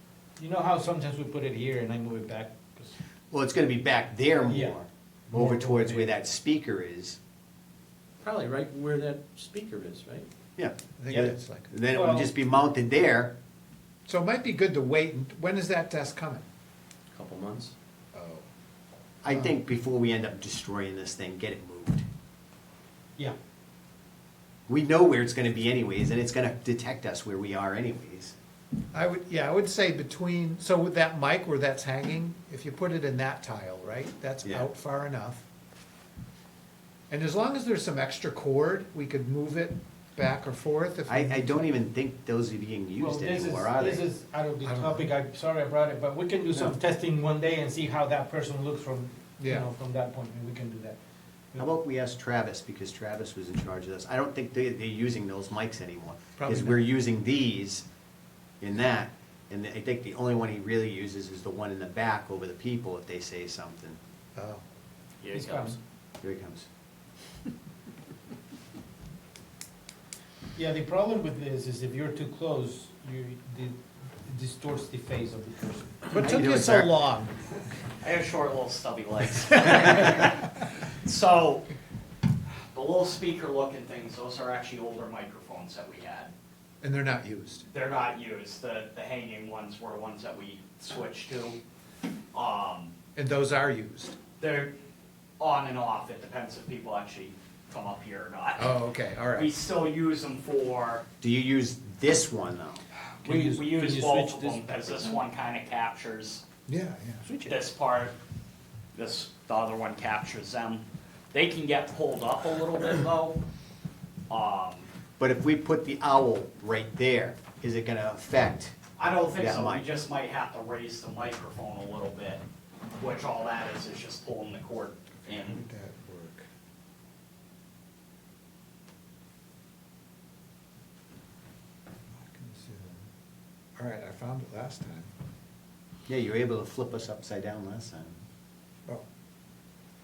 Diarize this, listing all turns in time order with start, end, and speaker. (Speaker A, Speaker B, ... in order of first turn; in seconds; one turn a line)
Speaker A: 0.4-2.9
Speaker B: 3.3-7.2
Speaker A: 4.5-6.2
Speaker C: 8.2-10.3
Speaker B: 10.6-13.3
Speaker D: 11.0-11.7
Speaker A: 11.9-12.3
Speaker D: 14.1-16.4
Speaker C: 17.1-17.7
Speaker D: 18.1-18.5
Speaker B: 19.2-22.1
Speaker D: 19.3-19.6
Speaker B: 24.7-28.4
Speaker D: 28.9-35.5
Speaker B: 34.4-34.7
Speaker D: 37.1-41.6
Speaker B: 41.1-44.1
Speaker A: 43.0-51.0
Speaker D: 44.6-45.1
Speaker D: 49.4-49.7
Speaker B: 51.5-57.9
Speaker D: 56.4-56.9
Speaker B: 58.6-64.0
Speaker D: 64.4-64.6
Speaker E: 65.2-65.8
Speaker A: 65.3-65.8
Speaker B: 66.2-66.7
Speaker A: 70.6-73.8
Speaker A: 74.3-76.1
Speaker D: 76.1-77.3
Speaker B: 76.1-76.9
Speaker E: 78.0-81.7
Speaker E: 82.7-86.3
Speaker D: 86.8-87.7
Speaker E: 87.7-91.6
Speaker E: 92.3-92.9
Speaker D: 93.2-94.2
Speaker E: 94.4-94.7
Speaker E: 95.4-98.7
Speaker D: 98.6-99.5
Speaker E: 99.3-101.0
Speaker B: 101.2-102.8
Speaker A: 103.2-105.2
Speaker E: 103.2-106.4
Speaker D: 106.7-107.2
Speaker A: 107.3-107.6
Speaker E: 107.5-108.1
Speaker E: 109.0-113.4
Speaker E: 114.3-114.9
Speaker B: 115.2-118.8
Speaker E: 119.0-122.4
Speaker B: 119.3-119.8
Speaker E: 123.0-125.6
Speaker D: 125.2-126.5
Speaker D: 132.1-133.1
Speaker D: 133.8-135.1
Speaker B: 136.1-138.2